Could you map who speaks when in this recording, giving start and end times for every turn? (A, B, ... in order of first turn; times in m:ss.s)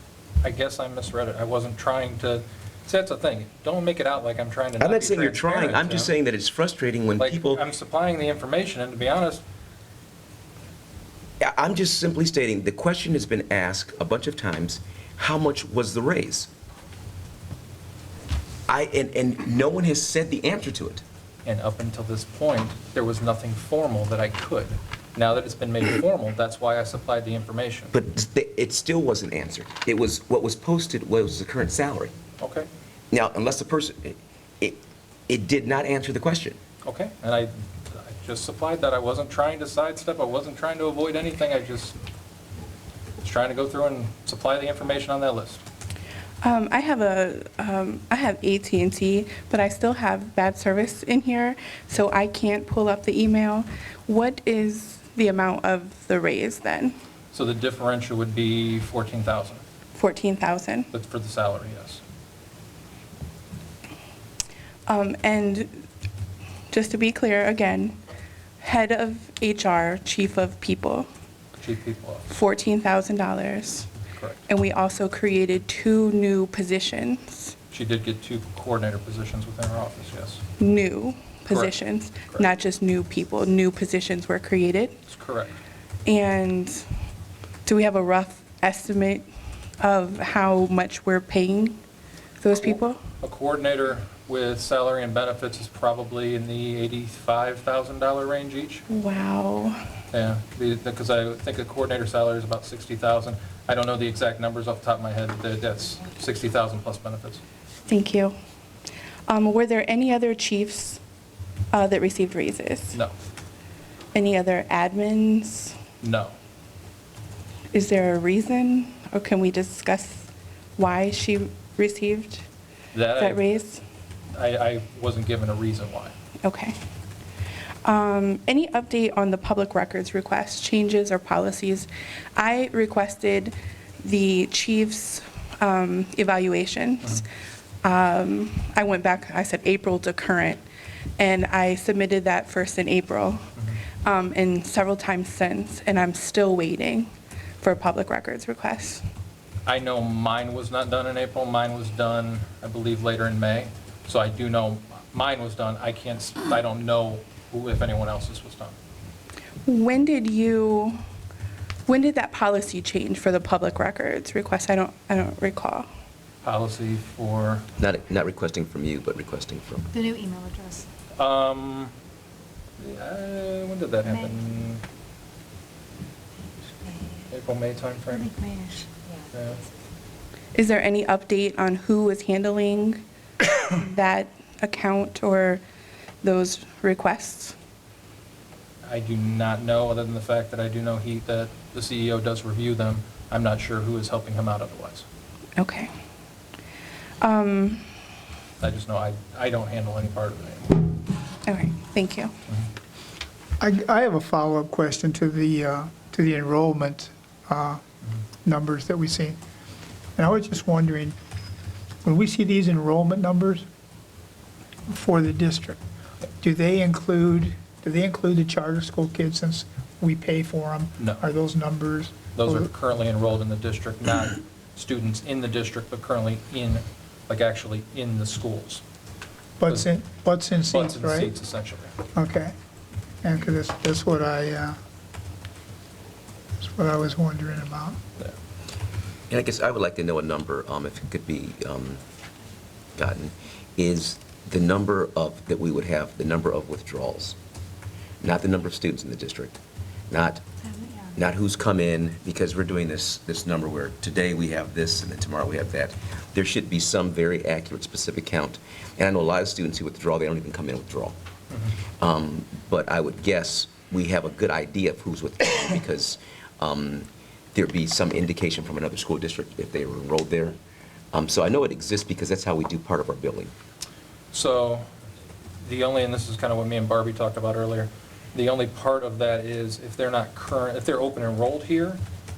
0:00.4-0:06.1 A
0:04.8-0:07.6 B
0:07.2-0:09.4 A
0:11.4-0:16.5 B
0:18.7-0:21.0 B
0:21.4-0:27.9 A
0:27.9-0:32.1 B
0:32.4-0:32.7 A
0:33.1-0:36.6 B
0:36.8-0:42.0 A
0:43.2-0:45.6 A
0:46.4-0:57.0 C
0:57.3-0:59.6 A
1:00.0-1:00.9 C
1:00.9-1:02.0 A
1:04.9-1:05.8 C
1:06.7-1:08.0 C
1:08.6-1:11.1 C
1:11.6-1:12.3 A
1:12.3-1:13.9 C
1:14.2-1:14.4 A
1:14.5-1:17.6 C
1:17.7-1:20.4 A
1:20.6-1:25.0 C
1:21.5-1:22.5 A
1:25.1-1:25.5 A
1:26.1-1:26.9 C
1:27.7-1:29.3 C
1:29.8-1:31.8 C
1:32.4-1:33.0 C
1:33.2-1:38.8 A
1:38.9-1:39.8 C
1:40.1-1:47.4 A
1:47.9-1:48.4 C
1:49.3-1:51.0 C
1:51.7-1:53.0 C
1:54.1-1:55.8 C
1:56.0-1:56.4 A
1:57.7-2:02.4 C
2:02.9-2:03.4 A
2:03.2-2:03.8 C
2:04.4-2:06.2 A
2:06.4-2:06.8 C
2:07.8-2:17.2 C
2:17.8-2:20.6 C
2:21.2-2:23.5 C
2:24.0-2:29.0 C
2:29.7-2:38.8 A
2:39.7-2:41.0 C
2:41.9-2:45.9 C
2:46.4-2:47.7 A
2:47.8-2:49.9 B
2:49.9-2:50.9 D
2:51.2-2:51.9 A
2:52.8-2:54.8 A
2:57.3-2:58.3 A
2:58.2-2:59.3 D
2:59.3-2:59.6 A
3:00.5-3:03.0 C
3:03.6-3:05.6 C
3:06.2-3:07.6 C
3:08.8-3:15.1 A
3:15.6-3:15.9 C
3:17.2-3:17.9 C
3:18.6-3:20.9 A
3:21.5-3:22.3 C
3:23.6-3:27.8 E
3:28.4-3:29.4 E
3:30.2-3:31.2 E
3:32.0-3:33.7 E
3:34.9-3:35.8 E
3:36.4-3:42.7 E
3:41.0-3:41.2 A
3:42.4-3:48.8 A
3:49.6-3:51.3 E
3:50.7-3:51.9 A
3:52.2-3:52.5 E
3:53.2-3:54.8 E
3:56.6-3:58.0 E
3:59.3-4:02.0 B
4:03.0-4:07.4 B
4:08.2-4:09.6 B
4:10.1-4:10.4 B
4:11.2-4:21.2 B
4:22.0-4:30.6 B
4:31.1-4:33.5 B
4:34.3-4:34.9 A
4:35.6-4:42.0 A